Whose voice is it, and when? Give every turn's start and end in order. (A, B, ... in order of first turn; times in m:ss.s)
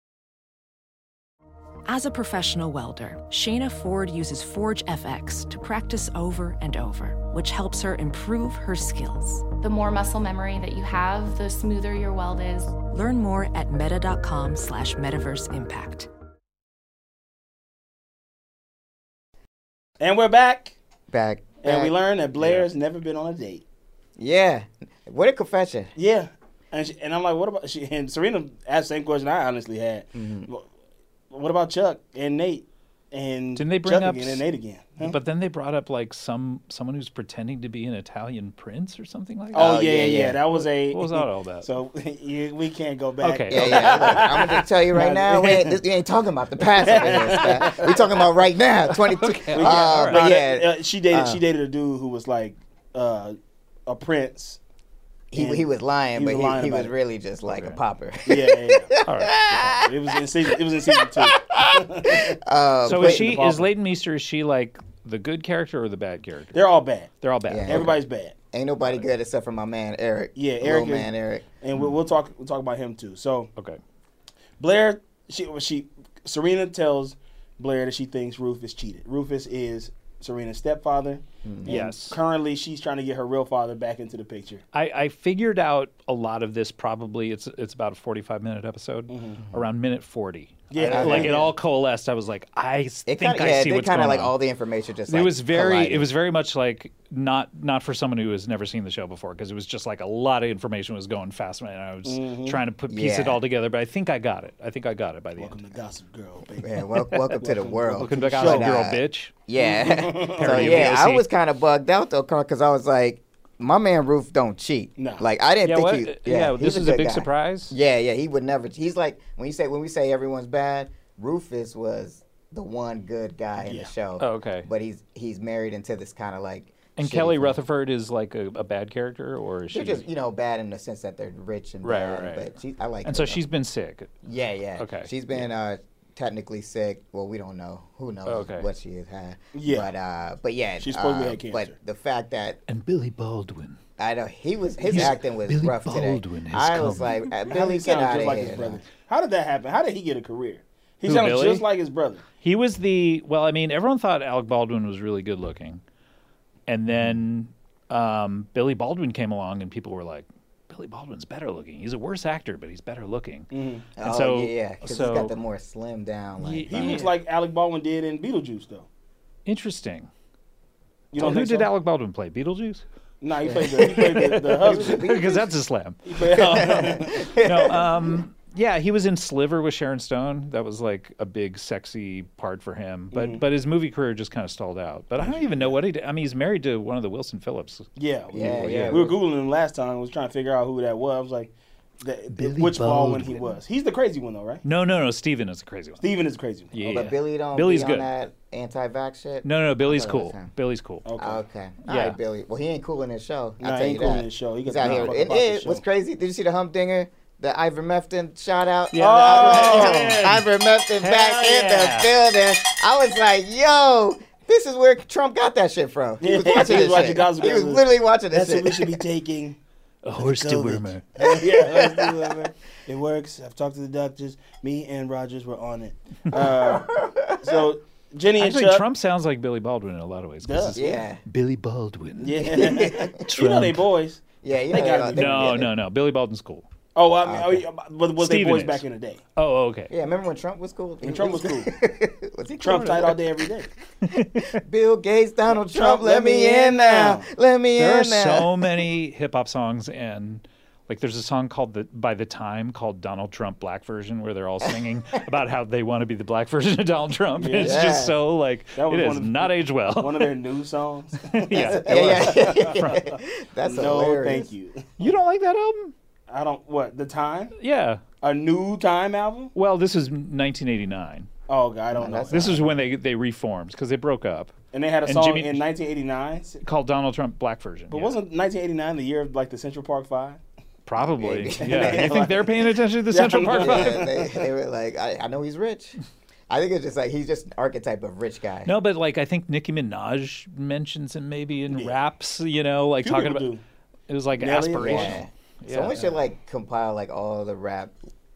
0:01.9-0:09.5 A
0:09.6-0:12.8 B
0:12.7-0:16.1 A
0:20.0-0:20.8 C
0:21.1-0:22.0 D
0:21.6-0:23.6 C
0:22.4-0:22.7 E
0:24.2-0:25.9 D
0:26.0-0:30.7 C
0:30.2-0:30.5 D
0:31.3-0:35.2 C
0:33.6-0:34.4 E
0:35.0-0:41.7 E
0:39.5-0:40.4 D
0:39.5-0:45.8 C
0:43.2-0:44.3 E
0:43.5-0:51.4 D
0:46.8-0:48.2 C
0:49.1-0:50.3 E
0:49.5-0:54.6 C
0:55.3-0:59.9 D
0:55.4-0:56.9 C
0:57.5-0:57.8 E
0:58.2-0:58.9 C
0:59.1-0:59.4 E
0:59.5-1:03.7 C
1:00.9-1:03.4 D
1:02.8-1:06.7 E
1:06.5-1:07.1 C
1:07.2-1:07.9 E
1:07.5-1:07.9 D
1:07.7-1:08.3 C
1:08.5-1:11.5 D
1:10.4-1:13.5 C
1:14.6-1:24.6 C
1:21.4-1:21.8 D
1:21.7-1:22.2 E
1:24.7-1:34.4 E
1:29.1-1:29.4 C
1:30.7-1:31.5 C
1:30.8-1:31.5 D
1:33.1-1:36.1 D
1:35.1-1:45.6 E
1:42.0-1:42.6 C
1:42.9-1:43.4 D
1:45.4-1:48.7 C
1:46.6-2:07.6 D
1:48.0-1:49.4 E
1:49.6-1:50.9 C
1:50.4-1:51.3 E
1:55.0-1:55.2 C
1:55.6-1:57.8 E
2:03.6-2:03.9 C
2:04.2-2:04.7 E
2:07.0-2:10.0 E
2:09.7-2:13.4 D
2:11.8-2:12.5 E
2:13.0-2:14.1 E
2:14.2-2:22.6 D
2:14.8-2:15.4 E
2:18.3-2:18.7 E
2:19.5-2:19.9 C
2:20.8-2:21.7 C
2:22.7-2:23.8 E
2:24.0-2:28.8 D
2:24.8-2:27.2 E
2:27.4-2:32.2 C
2:31.0-2:31.6 E
2:32.4-2:35.8 E
2:36.7-2:45.3 E
2:43.5-2:43.9 C
2:44.0-2:47.0 D
2:46.4-2:47.1 E
2:46.7-2:48.9 C
2:49.5-2:50.1 E
2:51.1-2:51.7 C
2:51.2-2:52.8 E
2:53.2-2:55.0 C
2:53.4-2:55.5 D
2:53.8-3:09.1 E
2:56.0-2:57.3 C
2:56.4-2:58.2 D
3:03.1-3:03.4 C
3:05.2-3:05.8 C
3:08.0-3:14.6 C
3:08.3-3:09.2 D
3:12.3-3:13.6 E
3:14.6-3:16.0 E
3:16.0-3:17.1 C
3:16.7-3:18.1 E
3:16.9-3:20.5 D
3:19.4-3:21.0 E
3:21.0-3:21.4 C
3:21.2-3:39.0 D
3:21.9-3:22.2 E
3:23.6-3:25.8 C
3:24.8-3:25.1 E
3:28.9-3:30.4 E
3:29.0-3:30.4 C
3:31.0-3:32.1 E
3:36.2-3:39.6 C
3:40.0-3:41.3 E
3:40.2-3:48.8 C
3:41.2-3:42.5 D
3:46.3-3:47.7 D
3:48.4-3:53.9 E
3:50.4-3:50.8 C
3:50.7-3:51.2 D
3:52.2-3:55.6 C
3:52.5-3:53.2 D
3:54.4-3:55.7 D
3:54.9-3:56.7 E
3:57.0-3:59.2 C
3:57.2-3:57.6 D
3:58.2-3:58.8 E
3:59.4-3:59.9 E
3:59.9-4:03.2 D
4:01.0-4:01.7 C
4:02.6-4:03.7 C
4:02.7-4:03.1 E
4:04.0-4:04.6 E
4:04.2-4:08.8 D
4:05.6-4:07.3 C
4:07.8-4:20.3 E
4:17.4-4:17.9 C
4:17.6-4:18.2 D
4:18.8-4:23.1 C
4:21.2-4:23.2 E
4:21.5-4:24.5 D
4:23.6-4:25.1 C
4:25.0-4:25.9 E
4:26.3-4:27.5 C
4:27.6-4:28.0 E
4:28.2-4:29.5 C
4:29.6-4:31.3 E
4:31.5-4:32.5 C
4:31.9-4:32.7 D
4:32.3-4:34.5 E
4:34.7-4:36.6 C
4:35.1-4:35.6 E
4:36.6-4:38.2 E
4:37.9-4:40.4 C
4:40.9-4:44.2 E
4:41.0-4:42.4 D
4:41.6-4:42.5 C
4:43.1-4:44.1 C
4:43.5-4:46.0 D
4:46.5-4:48.7 D
4:48.6-4:53.5 E
4:51.7-4:52.0 C
4:53.0-4:53.6 C
4:54.1-4:56.1 E
4:54.4-4:55.2 C
4:54.8-4:57.9 D